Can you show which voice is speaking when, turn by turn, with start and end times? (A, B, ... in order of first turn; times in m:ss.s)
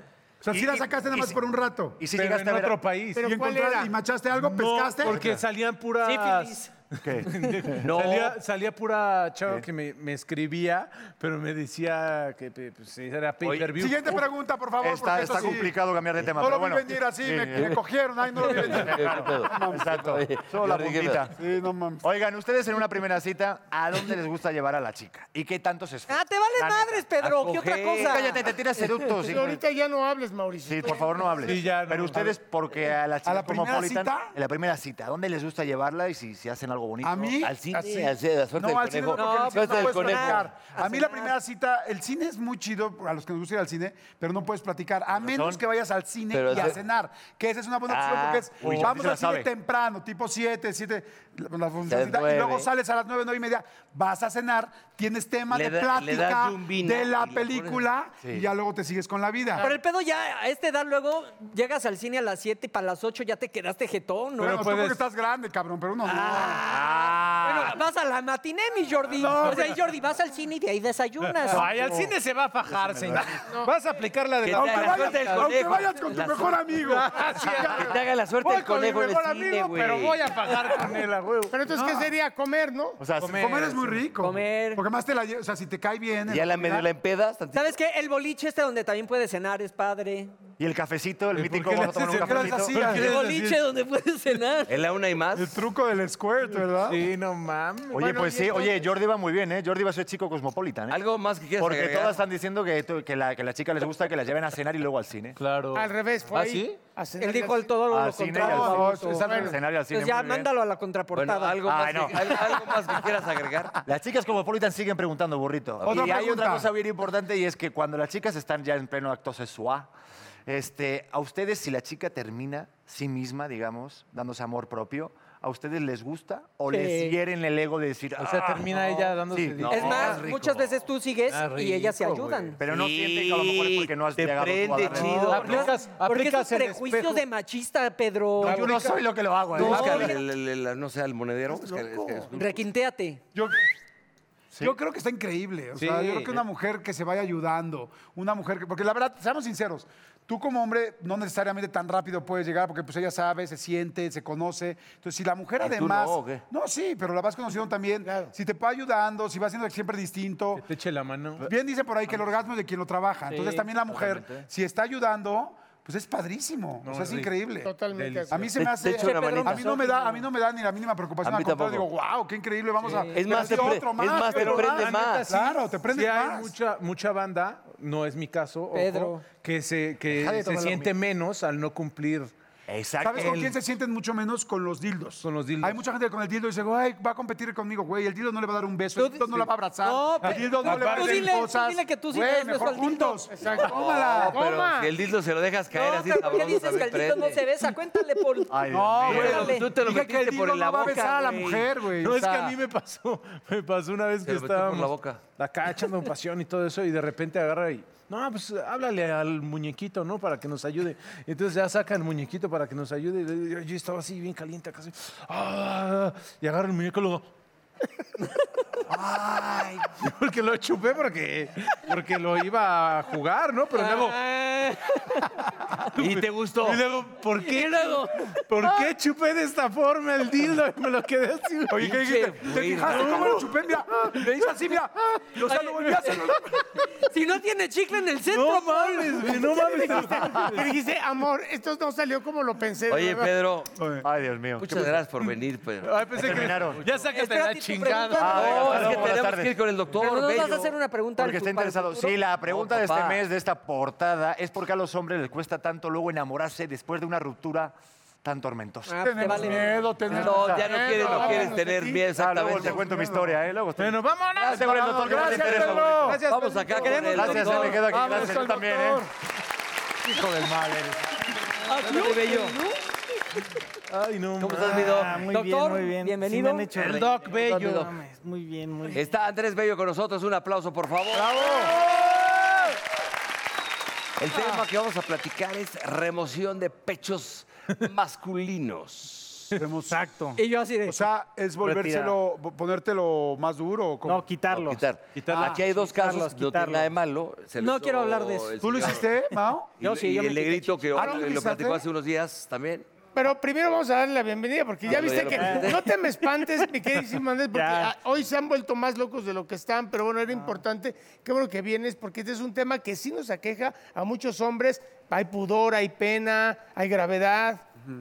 0:00.4-0:02.0 A
0:00.5-0:01.4 B
0:02.0-0:02.8 B
0:02.1-0:03.4 C
0:03.1-0:03.9 D
0:03.2-0:05.2 A
0:04.4-0:14.2 C
0:05.0-0:05.4 B
0:06.0-0:06.7 E
0:07.0-0:07.8 B
0:07.8-0:08.4 F
0:13.4-0:13.7 F
0:13.8-0:15.7 A
0:14.8-0:17.8 B
0:16.3-0:20.0 A
0:18.5-0:21.3 B
0:18.5-0:21.3 F
0:21.3-0:22.0 A
0:22.0-0:27.0 B
0:26.1-0:28.9 E
0:27.2-0:28.5 F
0:28.0-0:29.6 B
0:29.2-0:31.5 D
0:30.6-0:37.4 B
0:31.4-0:32.3 C
0:33.2-0:34.3 A
0:37.0-0:59.7 A
0:37.4-0:40.4 F
0:39.1-0:41.3 E
0:45.2-0:45.6 B
0:46.3-0:46.8 F
0:47.9-0:48.9 F
0:48.6-0:49.5 B
0:51.9-0:52.7 F
0:55.5-0:57.8 F
0:59.6-1:04.6 E
1:04.4-1:06.6 A
1:04.4-1:05.0 C
1:06.0-1:11.7 E
1:06.6-1:07.7 B
1:09.1-1:09.8 C
1:11.2-1:15.5 C
1:11.6-1:12.1 A
1:12.8-1:13.2 B
1:14.4-1:16.6 F
1:14.5-1:18.0 A
1:16.8-1:21.6 C
1:17.5-1:20.3 F
1:21.5-1:23.0 D
1:21.7-1:22.1 A
1:23.0-1:23.5 B
1:23.2-1:24.0 C
1:23.2-1:26.9 A
1:24.2-1:24.8 E
1:26.3-1:27.8 F
1:27.5-1:30.4 E
1:30.6-1:32.7 B
1:31.3-1:33.6 C
1:32.1-1:33.1 A
1:32.8-1:34.8 E
1:34.7-1:35.6 F
1:35.3-1:37.0 A
1:36.8-1:38.4 C
1:37.9-1:41.0 B
1:38.3-1:38.8 E
1:40.9-1:42.2 F
1:41.6-1:45.4 B
1:45.4-1:46.8 C
1:45.7-1:47.8 D
1:47.2-1:51.7 E
1:47.8-1:50.5 B
1:48.3-1:49.6 A
1:49.3-1:49.5 D
1:51.1-1:53.8 F
1:51.6-1:52.7 B
1:53.8-1:59.9 B
1:55.8-1:56.7 A
2:00.5-2:10.2 B
2:06.7-2:07.2 E
2:08.2-2:10.2 C
2:09.6-2:10.7 F
2:09.7-2:12.6 E
2:11.3-2:12.6 C
2:12.6-2:15.6 B
2:12.6-2:15.6 F
2:14.7-2:17.2 C
2:14.9-2:20.2 E
2:18.4-2:18.8 C
2:18.4-2:20.1 B
2:19.6-2:22.6 F
2:19.6-2:19.9 A
2:21.6-2:22.3 A
2:22.3-2:23.2 E
2:23.3-2:23.6 A
2:24.6-2:40.6 A
2:25.8-2:26.4 C
2:35.6-2:36.4 F
2:38.0-2:38.3 D
2:40.6-2:41.5 C
2:41.4-2:47.7 A
2:43.9-2:44.2 F
2:46.8-2:47.3 C
2:47.6-2:48.4 D
2:47.9-2:48.5 C
2:48.3-2:56.6 A
2:48.6-2:49.8 F
2:48.8-2:50.2 E
2:51.2-2:51.9 F
2:52.8-2:53.7 C
2:52.9-2:53.3 E
2:53.1-2:55.2 F
2:54.3-3:02.3 C
2:58.7-2:59.2 E
3:00.1-3:00.9 B
3:02.7-3:03.5 B
3:03.0-3:14.4 A
3:05.2-3:05.8 C
3:09.0-3:13.3 E
3:10.2-3:11.3 C
3:13.3-3:14.9 D
3:13.4-3:17.5 F
3:15.7-3:19.7 E
3:18.5-3:19.5 B
3:18.7-3:22.6 A
3:19.1-3:21.6 F
3:19.1-3:19.9 C
3:22.0-3:37.3 C
3:24.2-3:25.2 F
3:38.9-3:39.8 F
3:40.0-3:44.2 C
3:43.7-3:45.3 E
3:46.0-3:51.9 C
3:46.0-3:46.8 F
3:47.4-3:48.4 E
3:51.7-3:56.7 A
3:51.8-3:53.4 F
3:52.8-3:53.5 C
3:55.5-3:56.2 E
3:57.0-4:00.2 E
3:58.2-4:00.7 C
4:00.5-4:03.3 D
4:02.9-4:03.7 F
4:03.8-4:04.0 A
4:04.0-4:05.0 B
4:04.6-4:06.4 F
4:05.8-4:09.1 C
4:06.2-4:06.9 B
4:07.0-4:08.8 E
4:08.1-4:09.6 B
4:08.3-4:10.7 F
4:09.9-4:12.2 E
4:11.2-4:19.5 B
4:12.5-4:13.2 F
4:18.8-4:19.8 E
4:19.0-4:21.5 A
4:20.1-4:22.8 F
4:20.1-4:20.6 B
4:20.6-4:22.0 D
4:22.1-4:26.2 B
4:22.4-4:23.4 A
4:23.8-4:27.7 C
4:24.4-4:28.1 F
4:24.6-4:26.2 A
4:26.8-4:27.8 E
4:27.1-4:29.0 B
4:27.8-4:29.1 A
4:30.2-4:30.8 A
4:31.6-4:32.8 E
4:31.7-4:32.6 F
4:33.9-4:35.2 C
4:34.4-4:35.2 F
4:34.8-4:39.0 G
4:35.3-4:36.7 E
4:36.7-4:37.9 C
4:37.0-4:37.9 F
4:38.9-4:41.8 F
4:41.1-4:41.7 A
4:41.4-4:41.7 E
4:44.2-4:49.5 F
4:49.5-4:50.1 A
4:49.9-4:50.4 G
4:50.4-4:51.1 E
4:50.8-4:54.2 A
4:51.7-4:52.1 G
4:54.0-4:54.8 G
4:54.5-4:59.1 F
4:55.1-4:55.6 C
4:55.3-4:55.6 A
4:55.7-4:56.9 G
4:57.6-4:58.9 E
4:58.6-4:59.7 A
4:59.8-5:01.2 E
4:59.8-5:02.9 F
5:01.0-5:01.8 A
5:03.1-5:17.6 D
5:04.8-5:05.9 F
5:05.4-5:05.8 G
5:07.5-5:07.9 G